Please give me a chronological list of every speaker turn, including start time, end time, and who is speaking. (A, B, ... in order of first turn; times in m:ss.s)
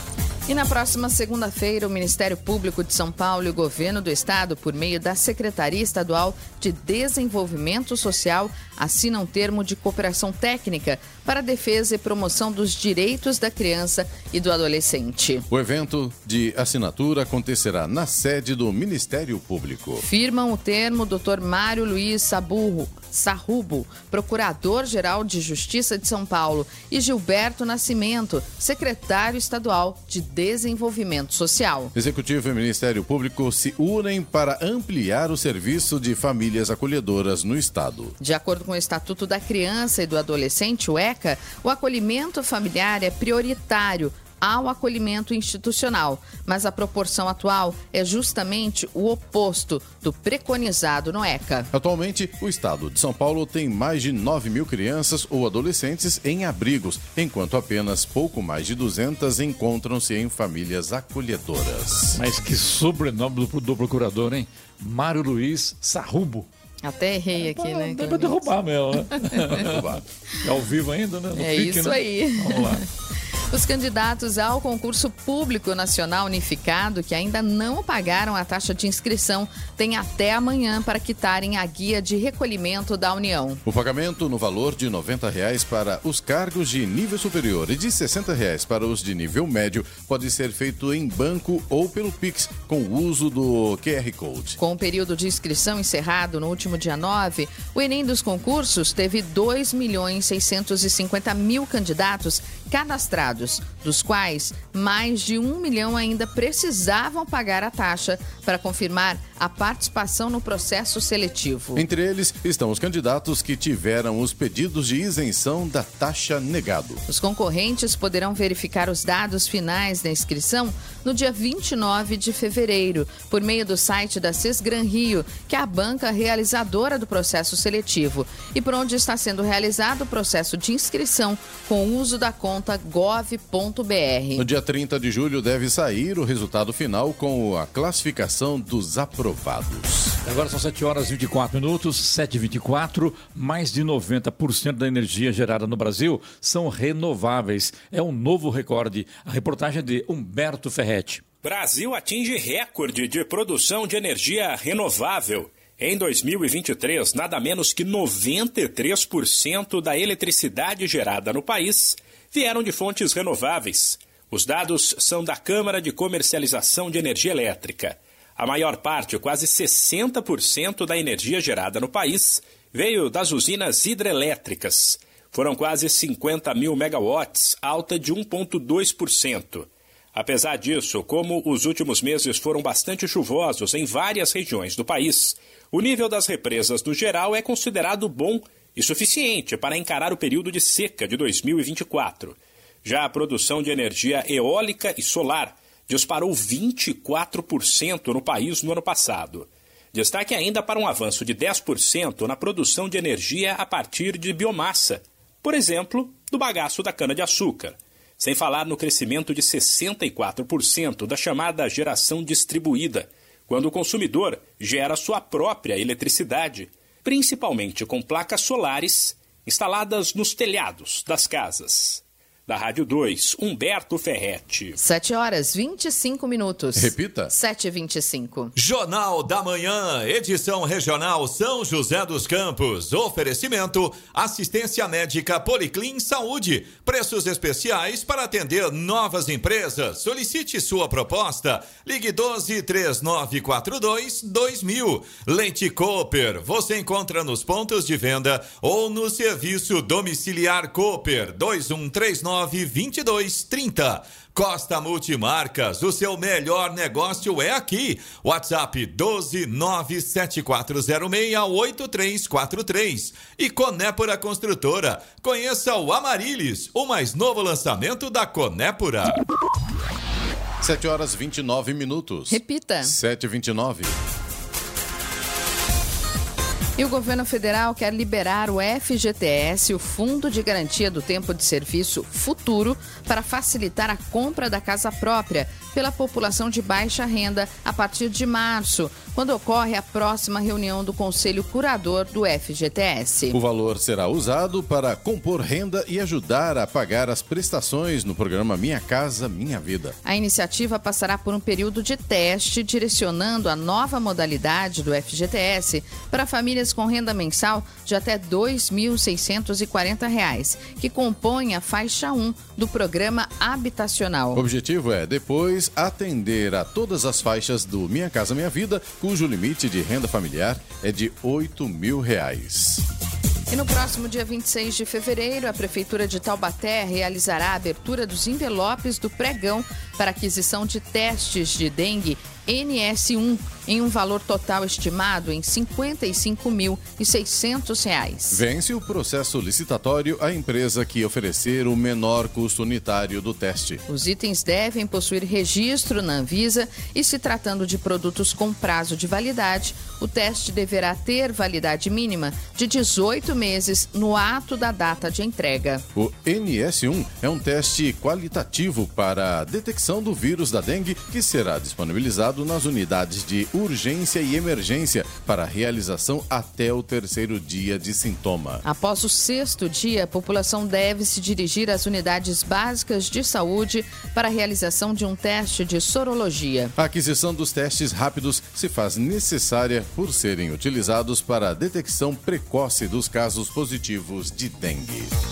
0:00.5-0:15.4 A
0:15.5-0:20.0 B
0:20.0-0:31.9 A
0:31.9-0:38.2 B
0:38.2-0:51.7 A
0:51.7-1:02.2 B
1:02.2-1:06.4 C
1:06.8-1:08.5 A
1:07.4-1:12.8 C
1:09.6-1:10.0 B
1:11.4-1:12.8 A
1:13.5-1:23.6 A
1:23.6-1:34.6 B
1:34.6-1:51.8 A
1:51.7-1:57.0 B
1:57.1-2:14.4 A
2:14.4-2:20.1 B
2:20.2-2:31.2 C
2:31.4-3:44.8 D
3:44.8-3:48.5 A
3:46.8-3:47.3 B
3:48.6-4:29.2 E
4:30.6-4:33.9 B
4:32.3-4:32.9 A
4:36.8-4:53.4 A
4:53.3-4:59.9 B
5:00.0-5:14.4 A
5:14.3-5:22.8 B
5:23.5-5:38.4 A
5:38.3-5:43.8 B
5:43.9-5:55.8 A
5:55.9-6:08.6 B
6:08.6-6:16.7 A
6:16.8-6:25.1 B